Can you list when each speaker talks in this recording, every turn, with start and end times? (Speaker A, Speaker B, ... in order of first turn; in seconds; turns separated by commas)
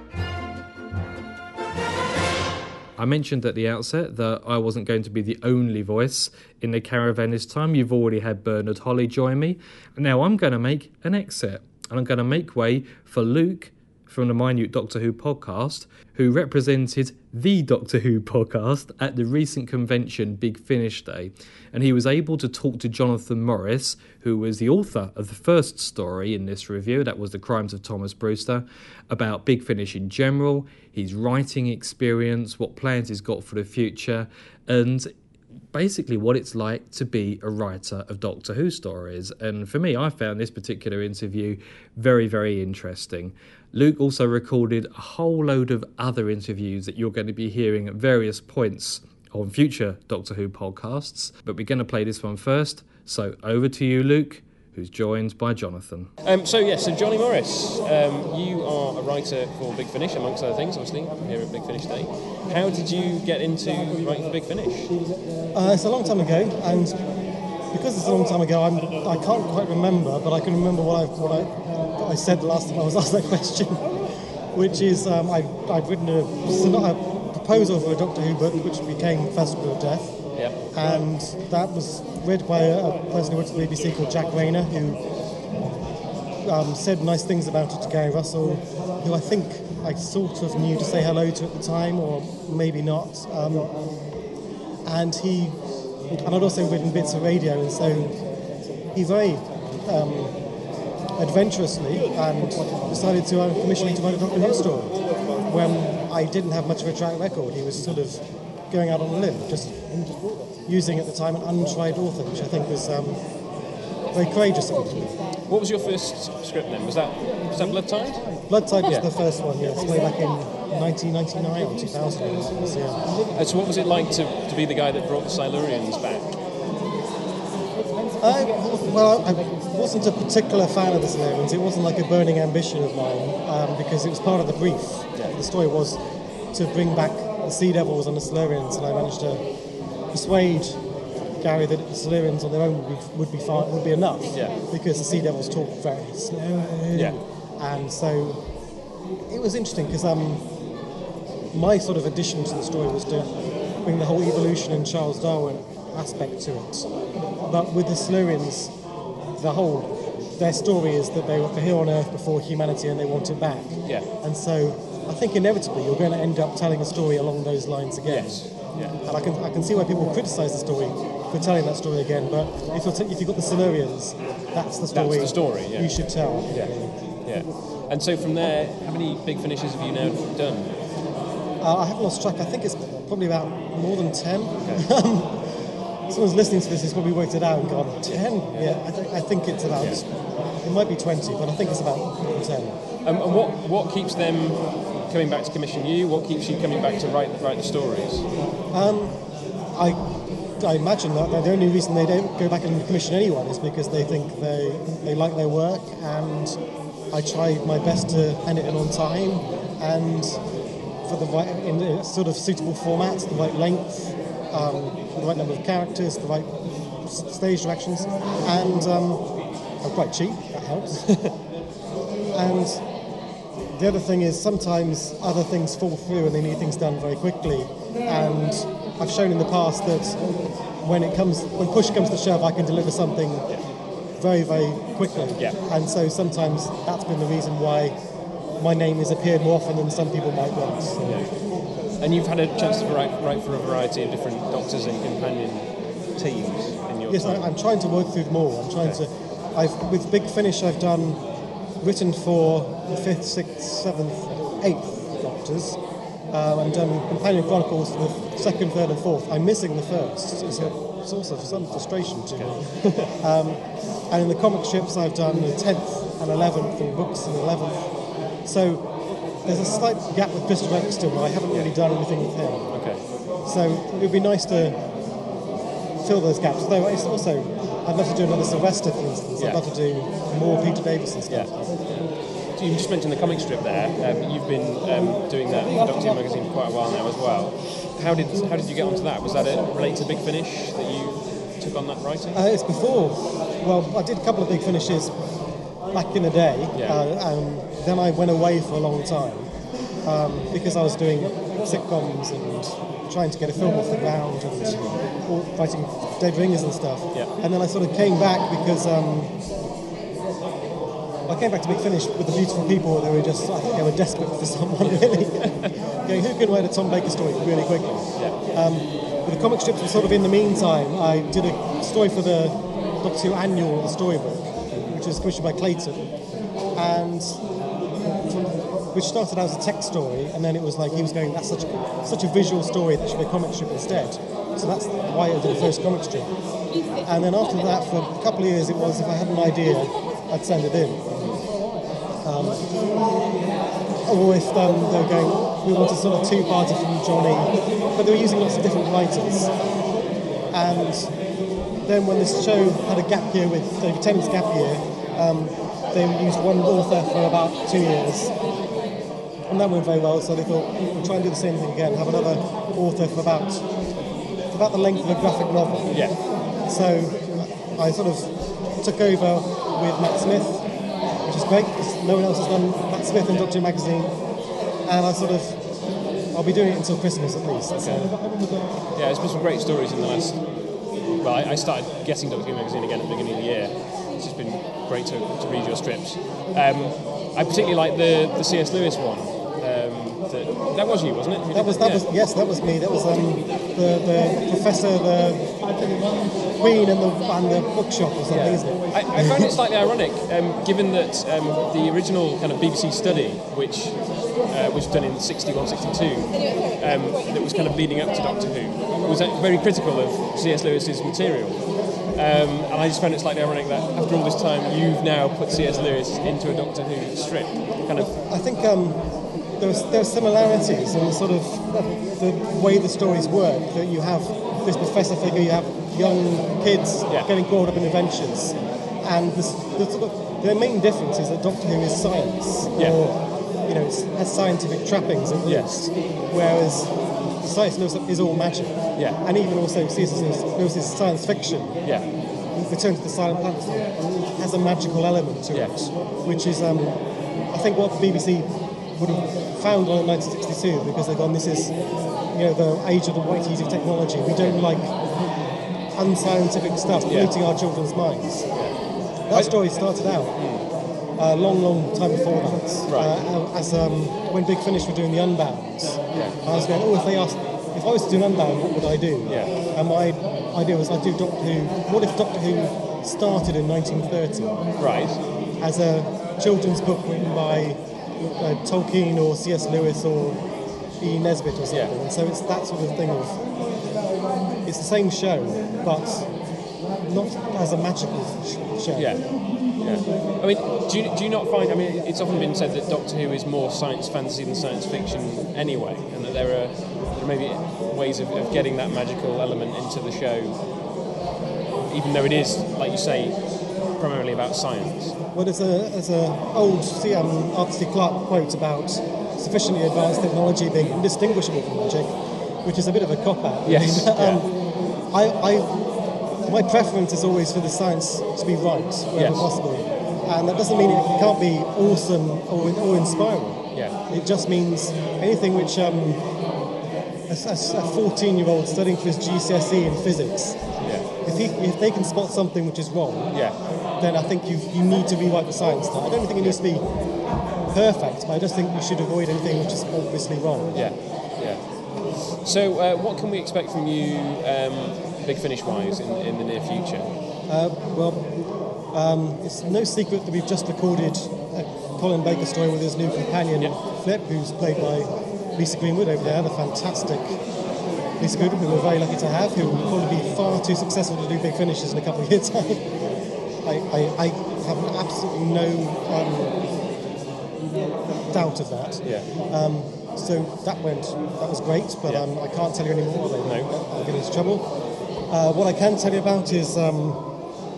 Speaker A: 3.0-35.1, Speaker A: 35.7-56.1, Speaker B: 56.2-65.0, Speaker C: 65.5-67.0, Speaker C: 67.7-74.0, Speaker C: 74.5-85.0, Speaker B: 80.3-81.0, Speaker C: 86.4-93.8, Speaker C: 94.9-95.6, Speaker C: 96.2-98.2, Speaker C: 98.9-100.4, Speaker C: 101.2-110.1, Speaker C: 110.7-113.3, Speaker C: 114.1-115.2, Speaker B: 115.5-119.1, Speaker C: 118.3-123.2, Speaker B: 123.3-126.3, Speaker C: 128.2-136.0, Speaker C: 136.5-139.4, Speaker C: 140.1-140.8, Speaker C: 141.4-148.4, Speaker B: 144.3-144.6, Speaker B: 146.9-147.2, Speaker C: 149.3-150.5, Speaker C: 151.5-156.9, Speaker C: 157.4-158.8, Speaker C: 159.4-177.2, Speaker B: 163.8-164.1, Speaker B: 168.1-169.0, Speaker B: 174.9-180.8, Speaker C: 181.6-185.4, Speaker C: 186.1-192.8, Speaker B: 188.0-188.8, Speaker B: 189.8-190.0, Speaker B: 193.0-198.3, Speaker C: 198.7-199.2, Speaker C: 200.6-206.6, Speaker C: 207.1-210.4, Speaker C: 211.1-221.1, Speaker B: 221.1-221.3, Speaker C: 222.3-222.8, Speaker C: 223.8-230.2, Speaker C: 230.8-233.6, Speaker C: 234.2-238.0, Speaker C: 238.6-241.3, Speaker B: 241.0-241.3, Speaker B: 242.0-247.5, Speaker C: 247.1-251.2, Speaker C: 251.8-255.8, Speaker C: 256.3-268.9, Speaker B: 260.5-260.8, Speaker B: 262.3-263.1, Speaker C: 269.4-272.9, Speaker B: 271.5-271.8, Speaker B: 272.7-273.1, Speaker C: 273.4-274.8, Speaker C: 276.0-281.8, Speaker B: 279.4-279.7, Speaker B: 281.3-292.4, Speaker C: 292.3-295.2, Speaker C: 295.9-299.5, Speaker B: 296.7-297.0, Speaker C: 300.1-309.3, Speaker C: 311.3-326.1, Speaker B: 314.8-315.7, Speaker B: 318.1-318.4, Speaker C: 326.8-327.4, Speaker C: 328.9-336.3, Speaker C: 337.1-341.0, Speaker B: 341.1-341.4, Speaker C: 342.2-342.7, Speaker C: 344.1-349.6, Speaker C: 350.5-351.1, Speaker C: 351.9-358.4, Speaker C: 359.5-363.7, Speaker C: 364.5-370.7, Speaker B: 365.9-366.2, Speaker C: 371.2-374.1, Speaker C: 374.9-375.6, Speaker C: 376.3-378.7, Speaker B: 377.8-378.1, Speaker B: 378.9-380.4, Speaker B: 381.2-392.1, Speaker C: 391.5-399.6, Speaker B: 398.3-418.2, Speaker C: 417.9-441.9, Speaker B: 427.1-427.3, Speaker B: 432.8-433.0, Speaker B: 435.4-435.9, Speaker B: 438.9-439.2, Speaker C: 442.5-451.8, Speaker B: 445.5-445.9, Speaker C: 452.3-454.9, Speaker B: 454.4-454.6, Speaker C: 455.9-458.6, Speaker B: 457.1-457.4, Speaker C: 459.3-460.6, Speaker B: 459.3-459.6, Speaker B: 460.3-460.7, Speaker C: 461.2-474.7, Speaker B: 462.9-463.2, Speaker B: 466.1-466.4, Speaker B: 469.3-469.6, Speaker B: 474.8-475.2, Speaker C: 475.6-477.8, Speaker C: 478.4-480.4, Speaker C: 481.0-483.4, Speaker B: 481.7-481.9, Speaker C: 484.6-486.3, Speaker C: 487.0-489.2, Speaker B: 488.9-500.6, Speaker B: 501.9-503.4, Speaker B: 503.9-505.1, Speaker C: 505.3-512.1, Speaker C: 512.6-514.5, Speaker B: 513.6-514.5, Speaker C: 515.1-515.8, Speaker C: 516.5-526.2, Speaker B: 519.1-519.5, Speaker B: 523.7-524.0, Speaker C: 527.3-533.4, Speaker B: 530.8-531.1, Speaker B: 533.3-533.6, Speaker C: 534.0-536.9, Speaker C: 537.7-541.0, Speaker B: 540.7-541.6, Speaker B: 542.4-547.1, Speaker C: 547.5-548.3, Speaker C: 548.9-557.4, Speaker C: 558.2-562.9, Speaker C: 563.6-566.6, Speaker C: 568.3-574.7, Speaker B: 569.0-569.3, Speaker B: 573.4-573.7, Speaker C: 575.3-577.3